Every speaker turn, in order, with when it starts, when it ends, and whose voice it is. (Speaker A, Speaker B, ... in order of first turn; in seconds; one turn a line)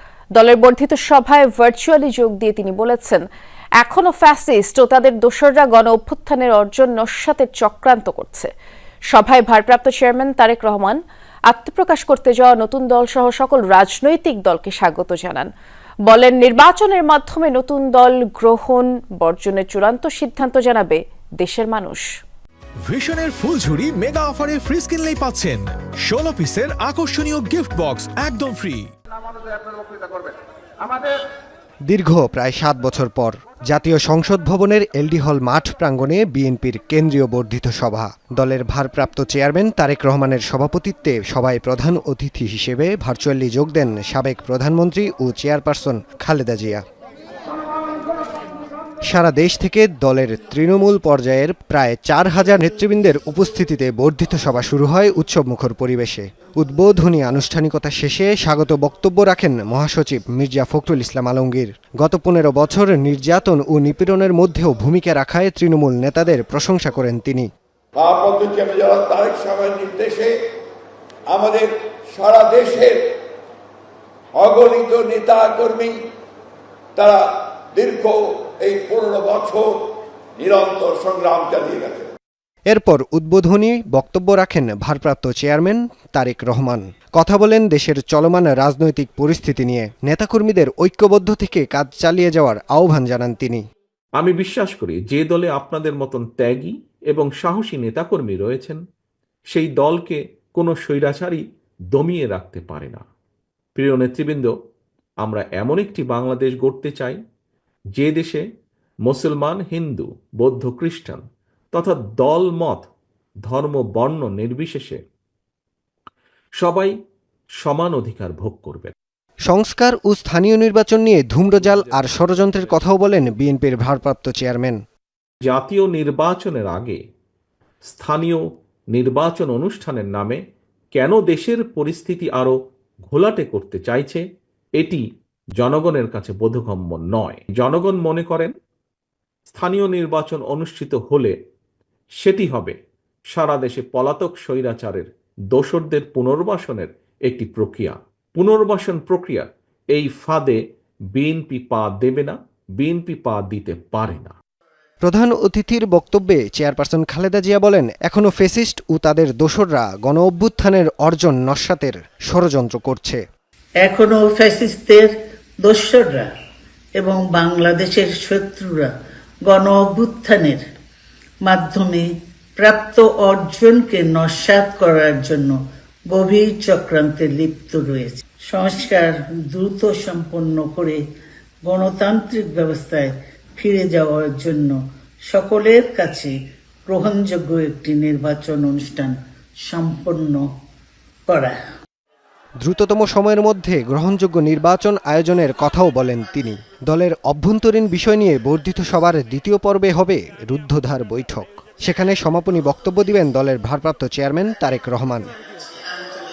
Speaker A: 0.4-3.2
Speaker A: 3.8-8.5
Speaker A: 9.1-15.5
Speaker A: 16.1-22.1
Speaker B: 22.8-28.9
Speaker C: 31.9-46.8
Speaker C: 49.1-67.5
Speaker D: 68.0-70.3
Speaker D: 71.3-73.1
Speaker D: 74.3-76.0
Speaker D: 77.0-82.1
Speaker C: 82.7-93.6
Speaker E: 94.2-98.8
Speaker E: 99.5-103.0
Speaker E: 103.8-104.5
Speaker E: 105.2-107.2
Speaker E: 108.0-108.4
Speaker E: 109.1-112.9
Speaker E: 113.5-115.0
Speaker E: 116.6-116.9
Speaker E: 117.6-118.9
Speaker C: 119.5-124.8
Speaker E: 121.9-122.5
Speaker E: 125.5-127.0
Speaker E: 127.8-130.4
Speaker E: 130.9-132.5
Speaker E: 133.1-134.2
Speaker E: 135.6-138.5
Speaker E: 139.5-141.3
Speaker E: 142.2-142.8
Speaker E: 143.3-150.6
Speaker E: 151.1-154.3
Speaker C: 155.1-163.2
Speaker F: 163.8-165.1
Speaker F: 165.6-166.3
Speaker F: 166.9-168.9
Speaker F: 169.5-170.6
Speaker F: 171.4-175.6
Speaker F: 176.1-181.0
Speaker F: 181.7-184.8
Speaker F: 185.3-186.3
Speaker F: 186.9-190.4
Speaker F: 191.3-191.6
Speaker C: 192.6-205.3